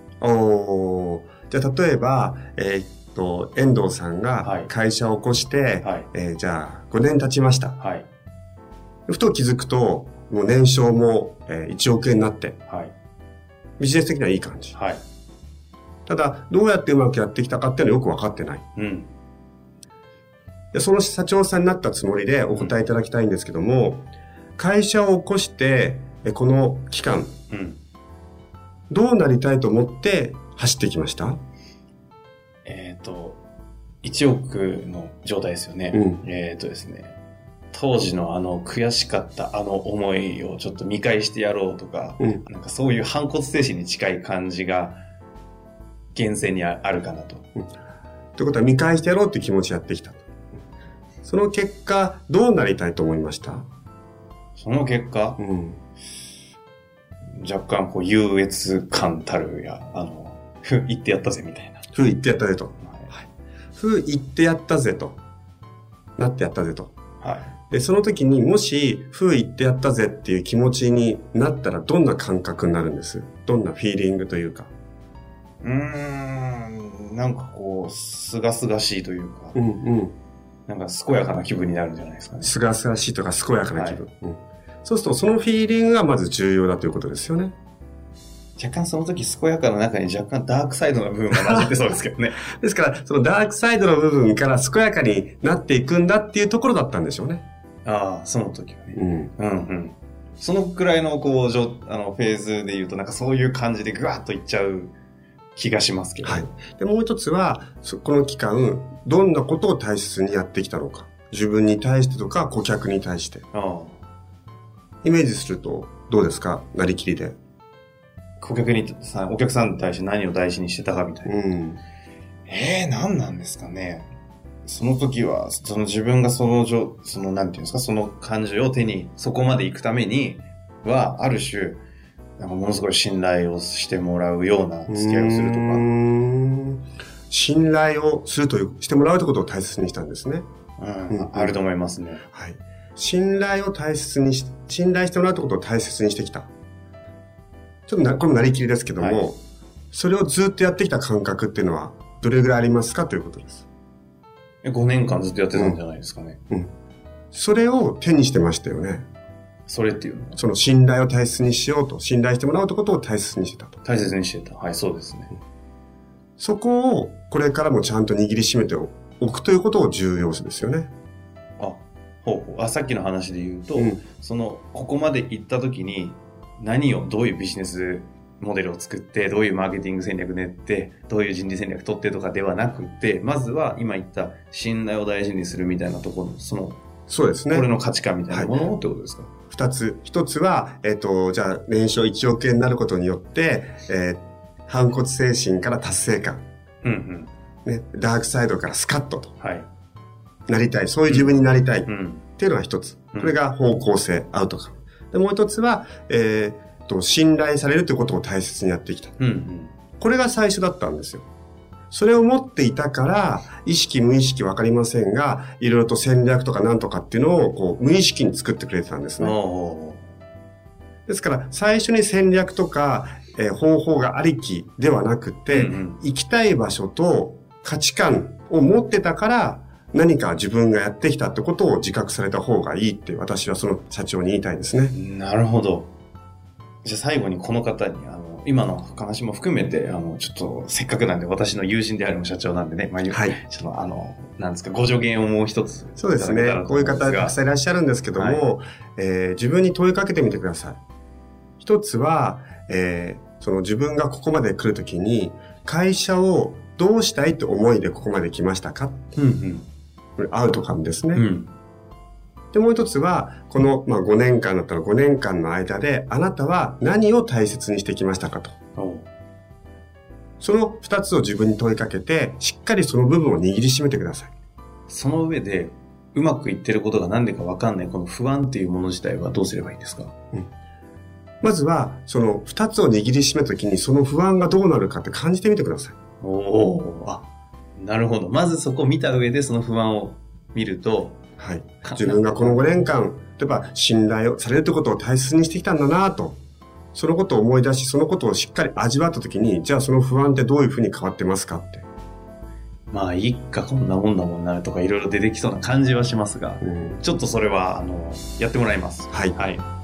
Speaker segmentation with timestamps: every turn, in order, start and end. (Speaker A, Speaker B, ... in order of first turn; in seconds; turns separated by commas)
Speaker A: 0.2-7.8, Speaker B: 4.4-4.7, Speaker B: 5.8-6.1, Speaker B: 7.8-8.1, Speaker A: 9.1-12.6, Speaker B: 12.7-12.9, Speaker A: 13.8-14.8, Speaker B: 14.7-15.0, Speaker A: 16.1-18.6, Speaker B: 18.8-19.1, Speaker A: 20.7-27.3, Speaker B: 22.5-22.8, Speaker B: 27.5-27.8, Speaker A: 28.9-31.4, Speaker B: 32.6-33.4, Speaker B: 34.0-37.2, Speaker A: 35.9-36.2, Speaker B: 37.7-45.0, Speaker B: 46.1-47.4, Speaker A: 48.4-50.2, Speaker A: 51.2-53.6, Speaker B: 54.5-55.4, Speaker A: 55.4-55.8, Speaker B: 57.3-61.8, Speaker A: 61.9-65.2, Speaker B: 62.8-63.1, Speaker A: 66.2-66.9, Speaker B: 67.2-67.5, Speaker A: 67.7-74.7, Speaker B: 75.6-79.6, Speaker A: 79.5-80.1, Speaker B: 80.7-82.5, Speaker A: 82.4-87.5, Speaker B: 83.7-84.0, Speaker B: 88.6-92.4, Speaker A: 91.3-91.7, Speaker A: 92.5-97.4, Speaker B: 97.8-104.9, Speaker A: 98.9-99.3, Speaker B: 105.5-106.5, Speaker A: 106.2-113.4, Speaker B: 113.5-114.0, Speaker A: 115.0-117.3, Speaker B: 118.4-121.4, Speaker A: 121.2-121.8, Speaker B: 122.5-124.1, Speaker B: 124.6-131.8, Speaker B: 132.4-135.9, Speaker A: 134.9-140.5, Speaker B: 140.8-142.2, Speaker A: 141.1-141.6, Speaker A: 142.3-146.5, Speaker A: 147.9-149.4, Speaker B: 149.0-149.2, Speaker A: 149.9-153.6, Speaker B: 154.6-156.4, Speaker A: 157.3-159.0, Speaker B: 159.7-160.4, Speaker A: 160.4-163.8, Speaker B: 163.8-165.3, Speaker A: 166.4-170.9, Speaker B: 171.6-186.8, Speaker A: 173.8-174.0, Speaker A: 187.1-187.7, Speaker B: 187.5-189.3, Speaker A: 189.5-196.4, Speaker B: 196.8-197.3, Speaker A: 197.6-199.3, Speaker B: 199.4-199.7, Speaker A: 200.5-209.1, Speaker B: 201.1-202.2, Speaker B: 209.2-209.7, Speaker A: 210.0-211.2, Speaker A: 211.9-219.4, Speaker B: 219.2-220.1, Speaker A: 221.1-234.9, Speaker B: 225.5-226.0, Speaker B: 234.9-235.9, Speaker B: 236.8-247.4, Speaker A: 243.1-243.4, Speaker A: 246.0-250.8, Speaker B: 248.1-248.4, Speaker A: 251.6-259.0, Speaker B: 259.1-259.7, Speaker A: 260.2-261.2, Speaker B: 261.1-261.5, Speaker A: 262.5-268.5, Speaker B: 268.8-269.1, Speaker A: 270.4-274.3, Speaker B: 274.9-280.1, Speaker A: 281.4-285.9, Speaker B: 286.2-287.2, Speaker B: 287.8-291.2, Speaker A: 291.4-296.4, Speaker B: 291.8-292.8, Speaker A: 296.9-301.9, Speaker B: 302.9-309.6, Speaker A: 306.6-307.0, Speaker A: 309.1-309.4